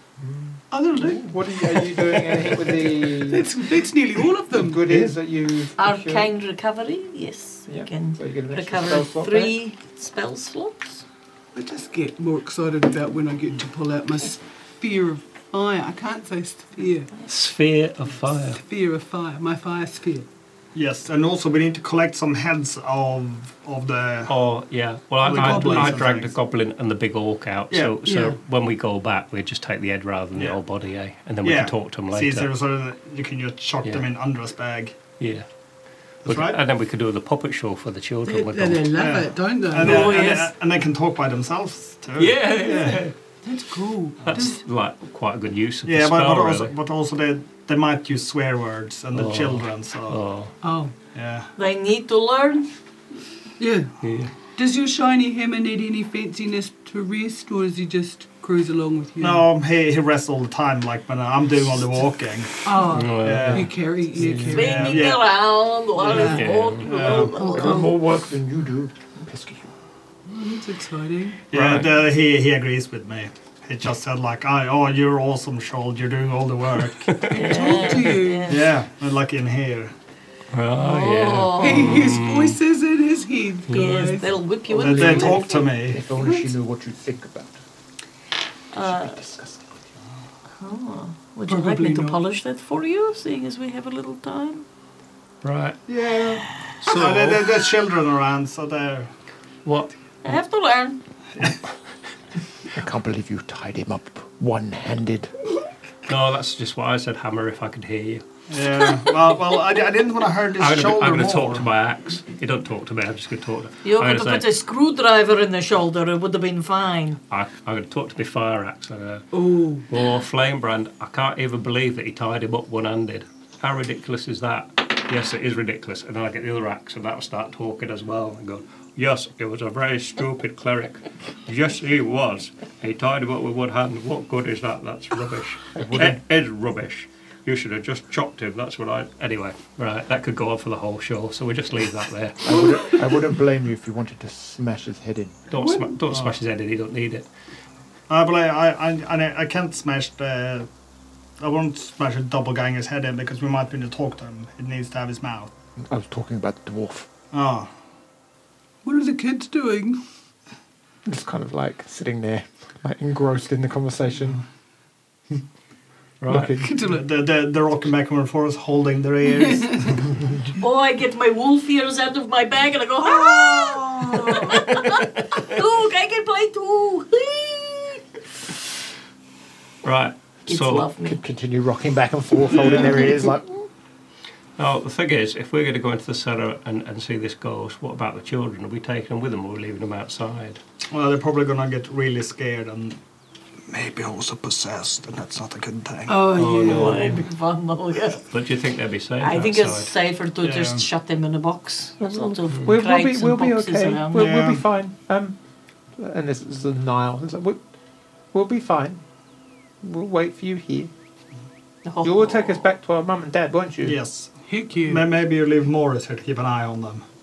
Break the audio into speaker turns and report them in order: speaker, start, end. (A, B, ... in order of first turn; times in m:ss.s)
0:00.2-0:03.6 A
0:00.7-0:04.9 B
0:04.5-0:06.3 A
0:05.8-0:11.0 C
0:07.7-0:09.5 A
0:11.5-0:17.1 B
0:17.2-0:18.6 D
0:18.5-0:20.3 B
0:20.7-0:24.3 E
0:24.3-0:32.5 D
0:25.2-0:26.3 E
0:25.3-0:26.1 B
0:27.7-0:28.0 E
0:28.0-0:28.4 B
0:31.4-0:34.9 E
0:35.2-0:35.4 D
0:36.2-0:39.0 D
0:36.2-0:36.6 E
0:38.2-0:40.5 B
0:39.0-0:42.5 E
0:39.8-0:40.3 D
0:39.8-0:40.4 C
0:42.2-0:43.1 D
0:42.6-0:44.6 B
0:44.2-0:46.7 D
0:45.9-0:50.2 E
0:49.1-0:50.5 D
0:50.6-0:50.9 B
0:51.1-0:51.5 E
0:51.6-0:52.7 C
0:53.6-0:53.9 B
0:54.0-0:54.3 D
0:54.5-0:59.5 B
0:59.2-1:05.3 E
1:02.6-1:05.0 B
1:02.9-1:03.6 D
1:04.5-1:08.0 C
1:06.0-1:06.5 B
1:06.1-1:07.2 D
1:06.8-1:07.3 E
1:07.1-1:07.9 B
1:07.1-1:09.7 A
1:10.2-1:11.4 B
1:11.5-1:17.7 E
1:11.5-1:11.9 D
1:17.0-1:17.3 D
1:17.2-1:18.7 B
1:17.3-1:18.7 C
1:18.5-1:19.9 E
1:20.5-1:22.6 D
1:20.8-1:22.0 C
1:21.6-1:24.4 B
1:23.7-1:25.7 C
1:24.7-1:27.6 A
1:24.8-1:26.0 E
1:26.2-1:26.5 B
1:28.7-1:29.2 C
1:28.8-1:29.9 A
1:30.6-1:34.6 C
1:31.5-1:32.2 B
1:35.4-1:35.8 D
1:35.9-1:39.1 E
1:36.8-1:37.7 D
1:39.6-1:39.9 D
1:40.2-1:41.0 C
1:42.7-1:45.3 A
1:46.1-1:48.2 D
1:48.5-1:51.7 E
1:50.6-1:54.5 D
1:53.8-1:57.2 C
1:57.3-1:59.3 D
1:59.3-1:59.8 B
1:59.9-2:22.9 D
2:15.7-2:16.2 A
2:22.4-2:25.5 A
2:25.5-2:27.3 D
2:25.6-2:26.0 B
2:26.1-2:26.4 E
2:28.1-2:30.7 E
2:31.4-2:35.5 E
2:35.8-2:37.1 A
2:37.3-2:37.7 E
2:38.8-2:40.0 B
2:41.0-2:44.4 A
2:46.2-2:46.5 D
2:46.3-2:46.7 A
2:46.4-2:47.0 B
2:46.8-2:50.2 E
2:49.5-2:49.9 B
2:50.6-2:58.0 C
2:53.1-2:54.6 B
2:59.8-3:00.9 D
3:00.5-3:01.2 C
3:01.0-3:03.6 A
3:02.5-3:03.0 E
3:04.6-3:10.6 D
3:10.9-3:13.0 E
3:13.7-3:16.2 E
3:16.1-3:17.2 B
3:16.3-3:17.2 D
3:16.3-3:18.3 C
3:18.3-3:19.9 D
3:19.2-3:24.4 C
3:20.4-3:20.8 E
3:22.0-3:25.4 A
3:24.1-3:24.6 E
3:26.0-3:27.6 A
3:28.3-3:29.0 A
3:29.8-3:30.9 A
3:31.8-3:32.7 C
3:32.0-3:34.0 A
3:33.8-3:37.0 E
3:34.5-3:35.0 B